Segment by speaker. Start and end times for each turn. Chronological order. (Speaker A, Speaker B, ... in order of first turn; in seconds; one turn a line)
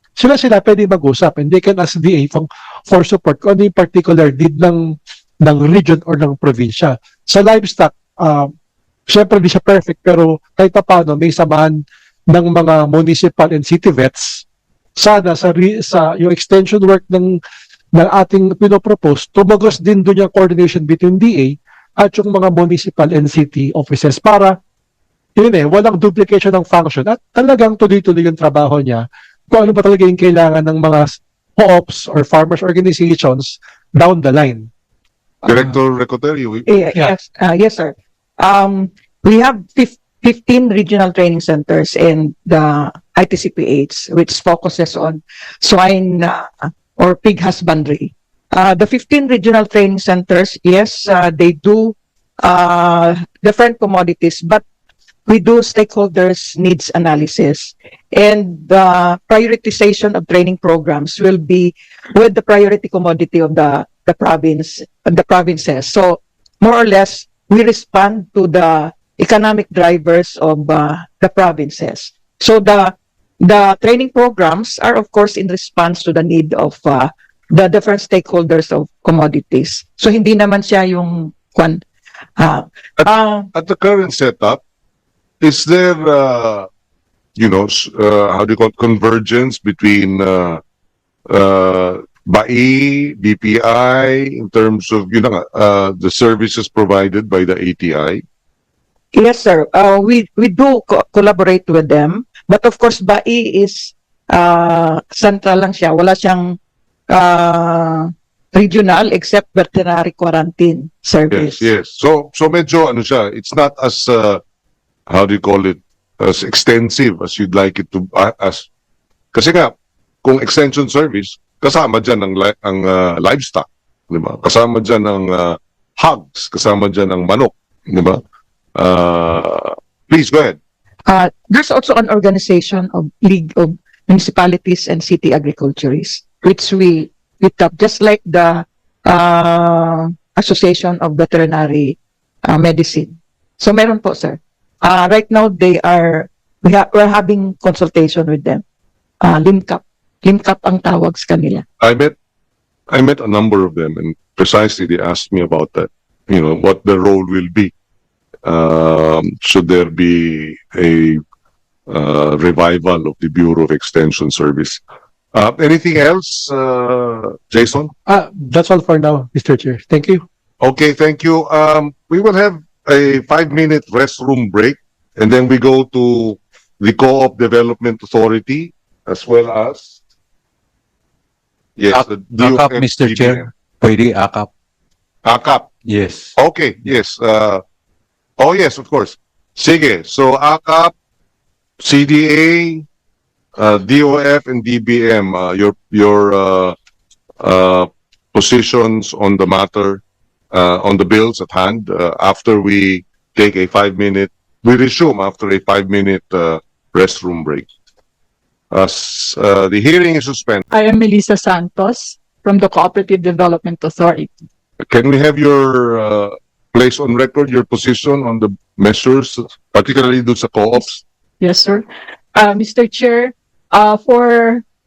Speaker A: 0.2-8.5
Speaker A: 9.1-14.4
Speaker A: 15.0-17.4
Speaker A: 17.9-24.6
Speaker A: 25.4-34.7
Speaker B: 35.4-36.7
Speaker C: 36.7-54.6
Speaker C: 55.2-81.8
Speaker C: 82.4-83.5
Speaker B: 83.0-84.6
Speaker B: 85.4-86.7
Speaker B: 87.3-90.6
Speaker B: 91.3-98.2
Speaker C: 99.1-106.6
Speaker C: 107.1-111.6
Speaker B: 111.3-114.4
Speaker B: 115.1-118.7
Speaker B: 119.3-128.2
Speaker B: 128.7-130.6
Speaker C: 131.1-148.6
Speaker C: 149.2-151.6
Speaker B: 151.8-152.1
Speaker B: 152.9-157.7
Speaker B: 158.4-161.2
Speaker B: 161.9-164.8
Speaker B: 165.3-167.9
Speaker A: 168.1-170.2
Speaker B: 170.6-180.0
Speaker B: 181.8-183.5
Speaker D: 182.6-184.5
Speaker B: 185.2-185.7
Speaker D: 185.9-186.3
Speaker B: 186.3-187.6
Speaker B: 188.4-190.9
Speaker B: 191.8-192.8
Speaker B: 193.6-196.8
Speaker B: 197.4-207.7
Speaker B: 208.7-210.6
Speaker E: 210.7-214.3
Speaker B: 214.8-221.0
Speaker E: 221.4-224.6